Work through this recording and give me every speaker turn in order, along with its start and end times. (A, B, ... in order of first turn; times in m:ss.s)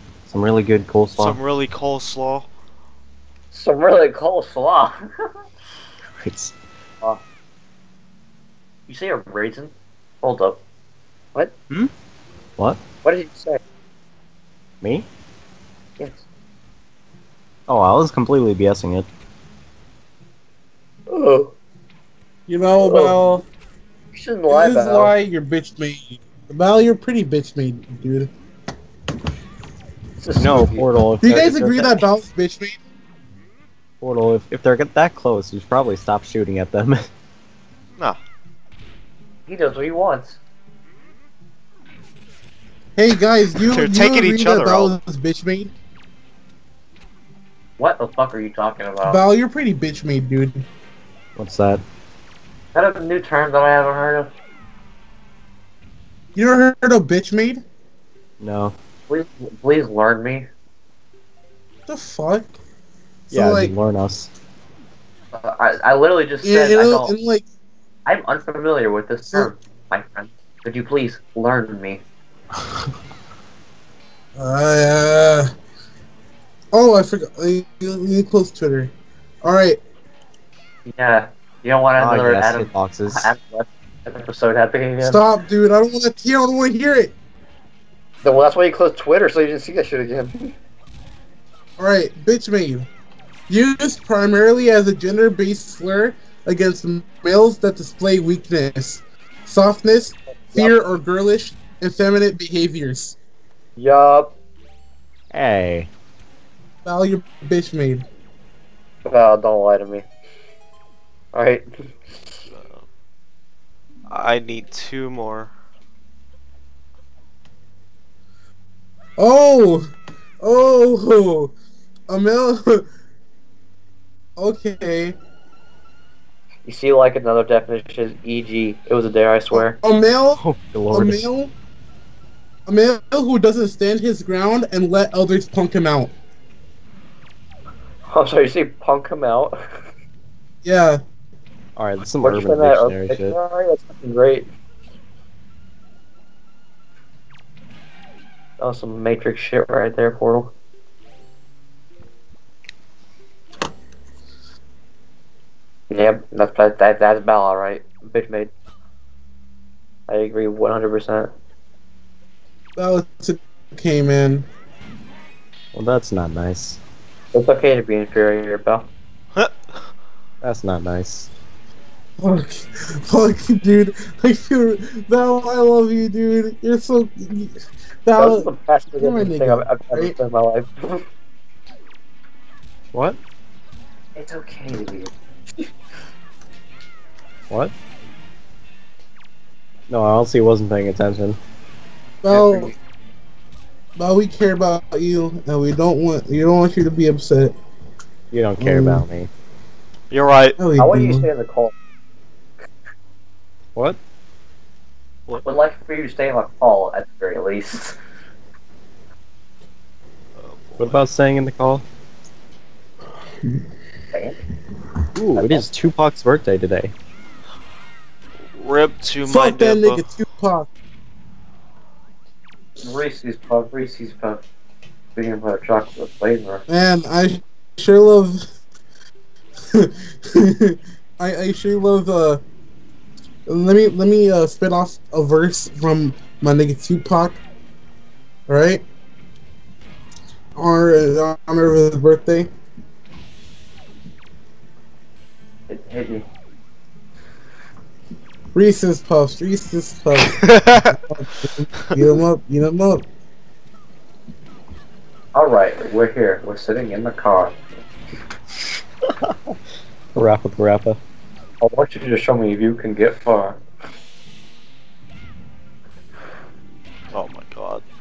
0:00.3-0:01.4 A
0:01.2-0:02.5 B
0:03.5-0:05.0 C
0:06.2-0:06.6 A
0:08.9-0:10.6 C
0:13.0-0:13.6 C
0:14.8-0:15.1 A
0:17.7-0:19.1 A
0:21.1-0:21.5 C
0:22.5-0:23.5 D
0:22.8-0:23.2 C
0:24.1-0:25.1 C
0:24.5-0:28.3 D
0:30.2-0:30.9 C
0:30.4-0:31.9 A
0:31.2-0:32.8 D
0:34.0-0:37.1 A
0:39.5-0:40.4 C
0:43.0-0:45.7 D
0:43.6-0:44.9 B
0:47.8-0:49.2 C
0:49.1-0:50.6 D
0:51.4-0:51.8 A
0:52.8-0:54.3 C
0:56.4-0:57.6 D
0:58.4-0:58.7 A
0:59.1-1:00.5 C
1:01.9-1:02.5 D
1:03.3-1:03.7 D
1:03.3-1:04.3 A
1:05.3-1:07.1 C
1:06.4-1:07.4 D
1:08.1-1:12.0 C
1:14.4-1:15.5 D
1:16.7-1:18.9 D
1:19.4-1:19.8 D
1:20.9-1:25.2 C
1:22.0-1:23.3 A
1:25.0-1:27.1 D
1:28.2-1:30.5 C
1:31.8-1:32.9 D
1:33.5-1:43.2 D
1:43.8-1:44.3 C
1:45.3-1:45.9 A
1:46.8-1:48.1 D
1:49.1-1:50.0 C
1:51.3-1:51.7 C
1:52.5-1:52.8 B
1:54.1-1:55.5 B
1:59.2-1:59.9 D
2:00.4-2:01.5 D
2:02.1-2:02.9 D
2:04.4-2:05.2 D
2:06.7-2:09.8 C
2:09.5-2:11.5 D
2:10.4-2:11.2 A
2:12.7-2:16.1 D
2:18.1-2:19.6 C
2:20.6-2:21.0 D
2:21.8-2:23.4 A
2:22.2-2:24.5 C
2:28.6-2:30.5 C
2:35.9-2:38.5 C
2:40.1-2:41.3 C
2:42.8-2:44.5 D
2:45.7-2:46.8 A
2:47.3-2:48.9 C
2:50.4-2:51.3 A
2:52.2-3:00.2 D
2:58.2-3:01.0 C
3:02.9-3:03.2 A
3:04.2-3:05.7 C
3:09.9-3:11.4 A
3:12.2-3:12.7 D
3:12.3-3:12.8 C
3:14.0-3:17.6 D
3:18.3-3:19.3 A
3:18.6-3:19.1 D
3:20.1-3:20.6 B
3:20.6-3:21.3 D
3:20.8-3:21.8 C
3:25.4-3:28.0 C
3:30.4-3:31.0 B
3:30.8-3:31.8 A
3:34.1-3:34.4 C
3:35.2-3:36.9 A
3:35.4-3:35.7 C
3:38.5-3:40.0 B
3:39.2-3:40.7 D
3:42.8-3:44.4 C
3:45.2-3:46.6 C
3:46.7-3:48.4 D
3:49.7-3:52.4 D
3:53.5-3:57.4 D
3:58.5-3:58.8 D
4:00.6-4:02.5 D
4:05.7-4:06.2 C
4:08.5-4:13.0 D
4:10.4-4:11.0 B
4:15.3-4:17.6 C
4:19.3-4:19.6 A
4:20.2-4:21.0 A
4:21.6-4:23.6 C
4:27.1-4:27.8 B